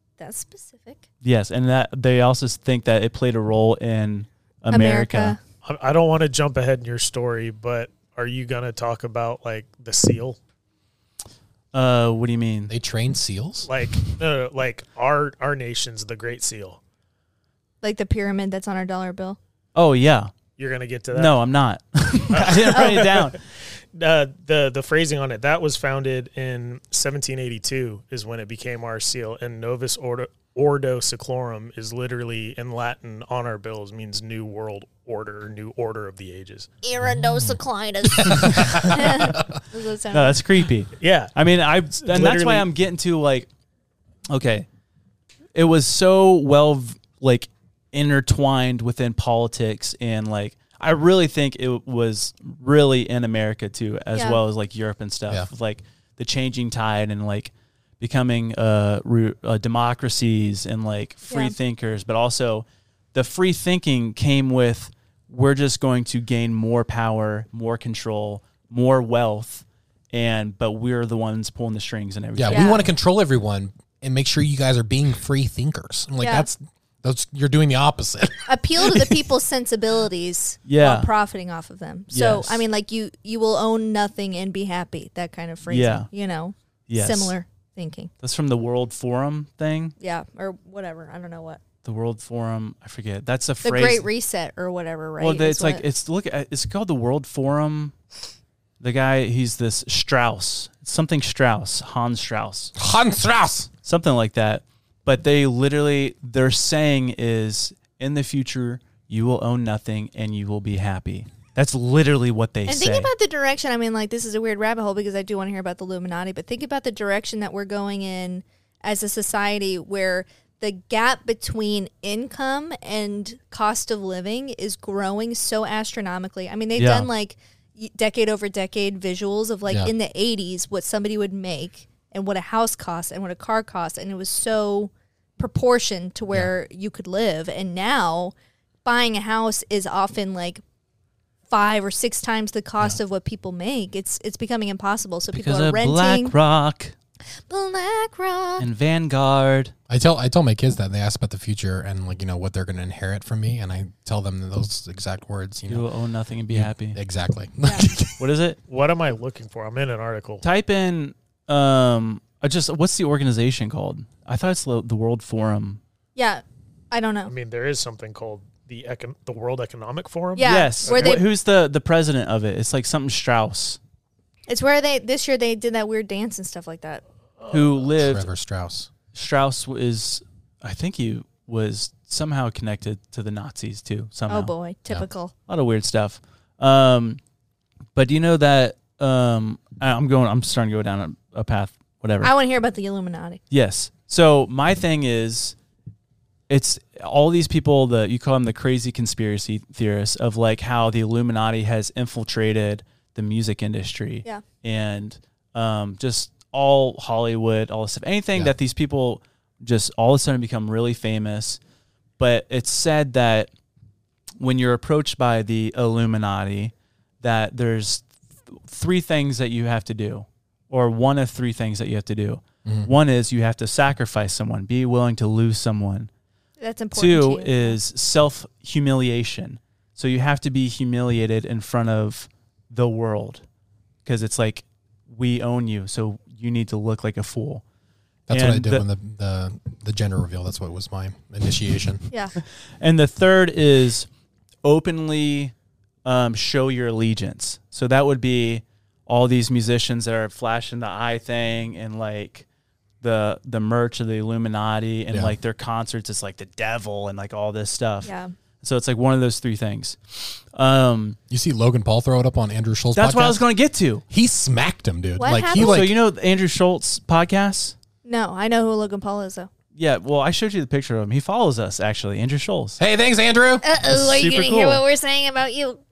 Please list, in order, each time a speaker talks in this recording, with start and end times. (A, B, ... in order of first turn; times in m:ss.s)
0:00.2-0:01.0 A
0:01.2-0:05.4 B
0:04.7-0:05.4 A
0:05.6-0:10.4 C
0:11.7-0:12.7 B
0:12.7-0:13.7 D
0:13.6-0:16.8 C
0:17.8-0:19.4 A
0:19.7-0:20.3 B
0:20.6-0:21.3 C
0:21.1-0:23.4 B
0:22.3-0:23.4 C
0:23.9-0:36.7 C
0:36.8-0:40.4 A
0:38.1-0:39.5 D
0:40.1-0:43.5 B
0:41.0-0:41.3 C
0:42.0-0:42.6 C
0:44.3-0:44.7 B
0:45.5-1:12.8 B
0:54.1-0:54.4 A
1:01.3-1:01.5 A
1:12.4-1:19.2 D
1:12.5-1:12.9 A
1:16.2-1:16.5 A
1:18.4-1:28.1 A
1:20.6-1:21.1 B
1:22.1-1:22.6 B
1:25.7-1:26.1 B
1:26.9-1:27.3 B
1:28.2-1:29.9 B
1:30.0-1:31.6 A
1:31.8-1:34.0 B
1:33.6-1:35.8 A
1:35.2-1:37.9 B
1:38.8-1:42.7 B
1:42.8-1:43.7 D
1:43.8-1:53.1 B
1:52.6-2:18.3 A
2:06.8-2:07.1 B
2:18.8-2:20.6 A
2:21.5-2:26.3 A
2:25.3-2:26.9 B
2:27.5-2:28.6 A
2:28.6-2:29.7 B
2:29.9-2:35.9 D
2:35.7-2:37.0 B
2:36.5-2:38.2 D
2:38.2-2:38.6 B
2:38.7-2:40.4 C
2:40.4-2:45.8 B
2:46.2-2:47.3 A
2:47.2-2:51.2 C
2:50.3-2:51.2 A
2:50.4-2:53.8 B
2:54.5-2:57.0 A
2:57.5-2:58.2 B
2:58.0-2:58.9 D
2:59.1-3:04.5 B
3:04.3-3:05.3 A
3:05.5-3:07.2 B
3:07.9-3:12.3 B
3:12.2-3:13.4 A
3:13.5-3:15.5 B
3:16.5-3:31.6 B
3:32.2-3:33.5 B
3:34.4-3:46.1 B
3:46.6-3:47.7 A
3:46.9-3:53.4 B
3:54.0-3:57.6 B
3:58.3-4:02.0 D
3:58.3-3:58.8 B
4:02.8-4:04.1 B
4:04.6-4:05.5 B
4:06.0-4:12.4 B
4:13.0-4:18.1 B
4:18.0-4:18.3 A
4:18.6-4:21.2 B
4:21.3-4:23.4 D
4:22.9-4:24.0 B
4:24.1-4:25.9 D
4:25.2-4:25.8 A
4:25.5-4:27.8 B
4:28.0-4:29.5 A
4:29.7-4:32.8 B
4:32.8-4:33.6 D
4:33.6-4:35.8 A
4:33.8-4:34.8 B